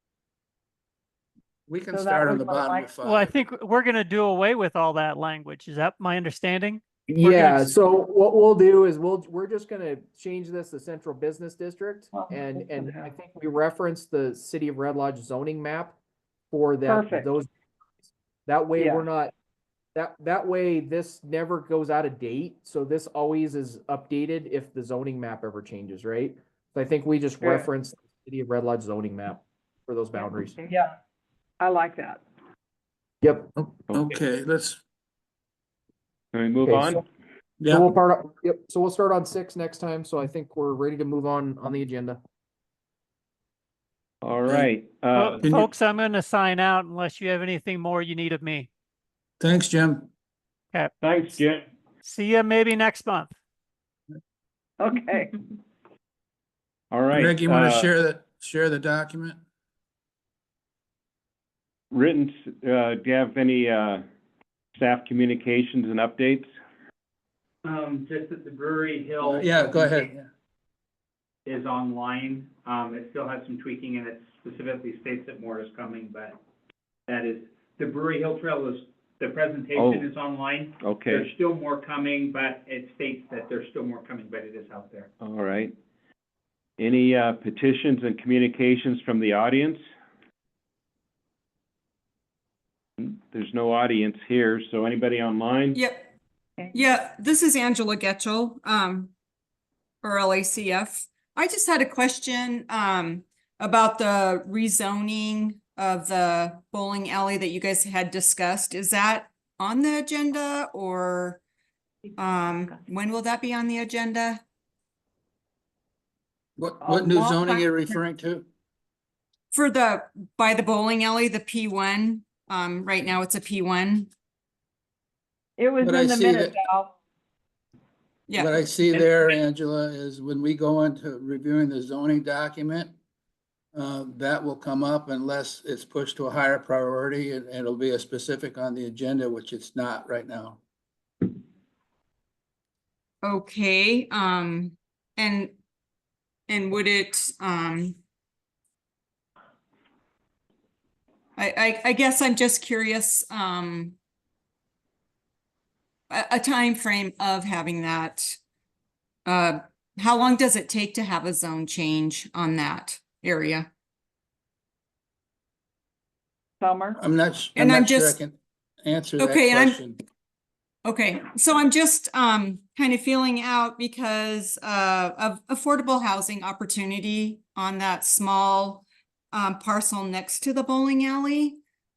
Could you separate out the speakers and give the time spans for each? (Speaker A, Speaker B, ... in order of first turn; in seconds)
Speaker A: 1.7-3.3, 33.9-34.8, 37.6-37.9, 49.4-50.1, 57.1-59.4, 69.2-70.3, 116.6-118.4, 125.8-126.5, 128.4-132.9, 133.7-140.6, 167.0-170.0
Speaker B: 1.9-2.9, 16.9-17.3, 18.8-19.0, 27.4-27.7, 30.7-30.9, 31.6-32.2, 54.8-55.3, 116.8-117.9, 125.6-126.9, 166.6-167.0
Speaker C: 3.0-7.7, 45.1-48.7, 52.0-53.3
Speaker D: 7.1-15.9, 16.5-17.5, 18.4-19.3, 19.9-30.6, 33.2-33.8, 36.6-37.0, 37.7-42.2
Speaker E: 33.9-34.2, 36.3-37.0, 44.2-45.4, 51.0-51.6, 56.9-57.9, 61.9-64.0, 64.7-66.5, 79.7-80.1, 80.8-81.3, 85.2-85.7, 86.8-89.8, 93.0-95.8
Speaker F: 67.6-70.0, 71.5-76.3, 77.1-85.1
Speaker G: 95.7-96.1, 96.7-99.1, 100.0-111.4, 112.2-114.4, 119.5-124.1, 128.3-129.2, 143.2-145.5, 146.5-148.0, 151.4-153.9, 156.1-158.4, 159.3-163.7, 167.5-168.2, 169.2-169.8, 170.8-181.6